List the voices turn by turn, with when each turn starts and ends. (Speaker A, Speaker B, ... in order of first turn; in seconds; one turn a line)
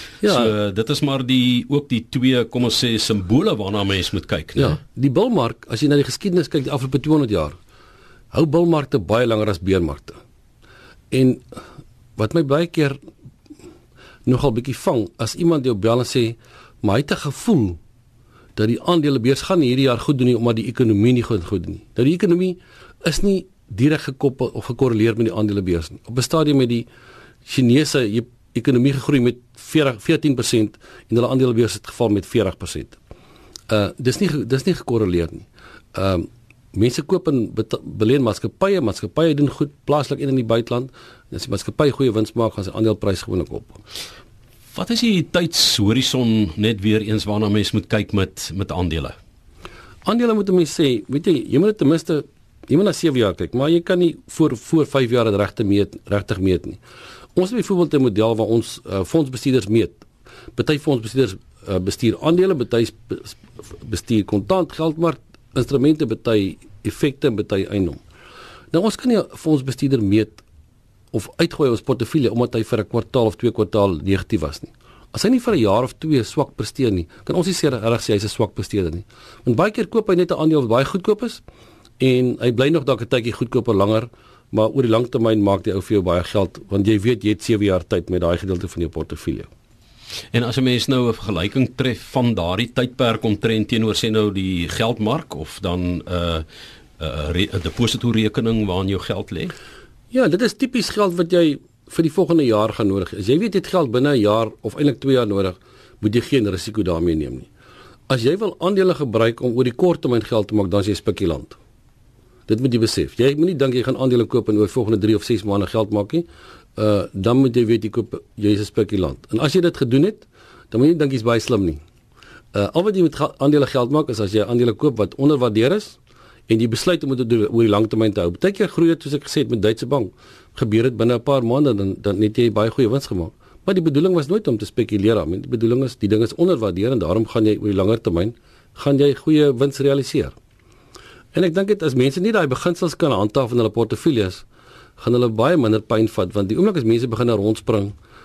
Speaker A: 0.2-0.5
Speaker B: 0.2-4.8
Speaker A: 4.5-7.6
Speaker A: 8.3-10.2
Speaker A: 11.1-11.5
Speaker A: 12.2-13.0
Speaker A: 14.2-17.8
Speaker A: 18.6-26.9
Speaker A: 27.4-33.0
Speaker A: 33.7-43.8
Speaker B: 44.7-49.1
Speaker A: 50.0-56.8
Speaker A: 57.3-60.0
Speaker A: 60.5-68.0
Speaker A: 68.7-70.4
Speaker A: 71.1-81.4
Speaker A: 82.0-89.5
Speaker B: 90.3-96.4
Speaker B: 97.0-99.5
Speaker A: 100.1-107.5
Speaker A: 108.1-111.6
Speaker A: 112.5-121.8
Speaker A: 122.5-140.3
Speaker A: 141.3-144.4
Speaker A: 145.0-147.9